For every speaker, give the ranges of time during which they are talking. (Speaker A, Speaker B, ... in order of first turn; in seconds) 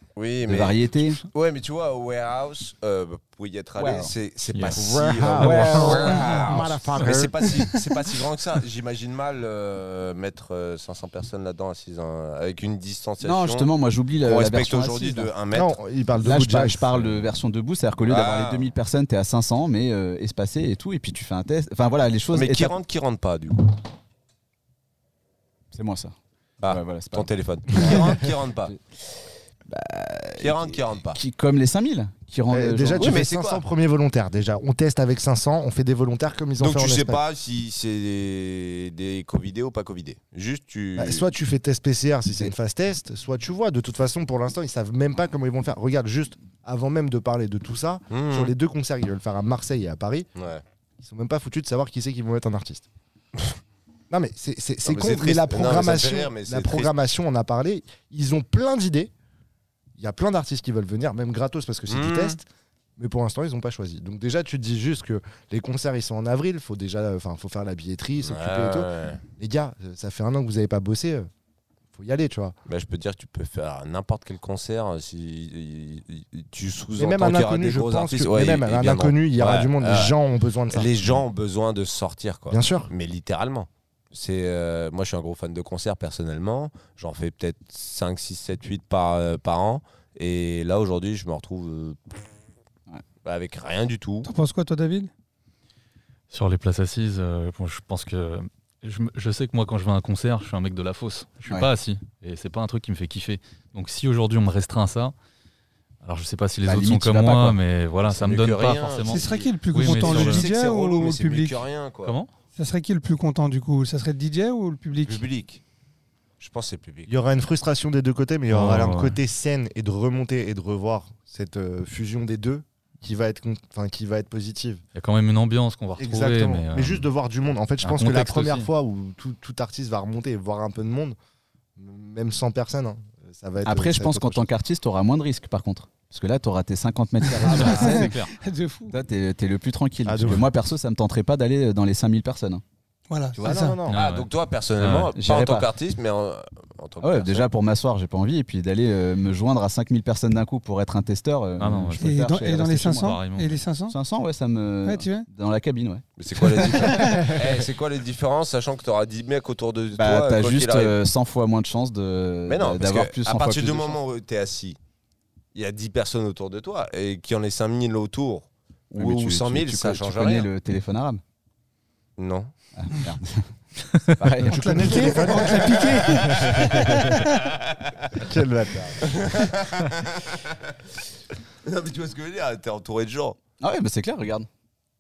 Speaker A: 0.1-13.7, 14.2-15.7, 18.0-18.7, 22.3-23.7, 26.6-28.7, 30.4-31.2, 33.0-33.6, 36.6-41.2, 48.1-48.5, 50.4-50.6, 54.8-56.9, 61.9-62.4, 68.2-69.2, 72.7-80.1, 80.7-92.2, 93.2-94.3, 108.1-112.2, 115.0-115.6, 116.4-117.1, 137.4-138.1, 143.9-147.5, 156.2-160.9, 162.5-164.8, 165.5-170.5, 172.2-172.5, 175.7-178.2, 179.0-180.7, 181.6-183.4
Speaker B: 0.4-1.2, 3.8-4.1, 5.4-6.6, 13.2-15.3, 16.2-22.7, 25.7-28.8, 29.6-33.2, 106.7-107.6, 133.6-138.1, 138.9-142.6, 143.3-143.6, 145.1-145.7, 147.0-153.2, 153.9-157.1, 159.9-164.0, 168.9-171.2, 172.8-173.5, 174.0-175.2, 183.6-184.5
Speaker C: 4.5-4.8, 5.4-5.7, 96.3-105.1, 106.0-110.5, 112.0-112.3, 118.5-119.2, 124.9-127.0, 127.8-128.7, 137.6-138.3, 143.9-145.1, 151.6-152.1, 152.9-153.6
Speaker D: 4.6-7.6, 15.5-17.2, 32.5-37.2, 41.0-50.3, 51.0-52.9, 54.1-59.1, 60.0-71.3, 71.9-72.5, 77.0-80.9, 82.5-82.9, 117.1-124.8, 126.0-131.2, 131.8-134.4, 140.1-140.5, 143.4-144.0, 174.4-177.2, 178.2-179.1
Speaker E: 94.2-95.1, 109.1-111.6, 112.5-115.2, 137.2-138.9, 143.1-143.8, 152.0-153.9, 154.8-155.3, 156.8-157.3, 174.5-176.6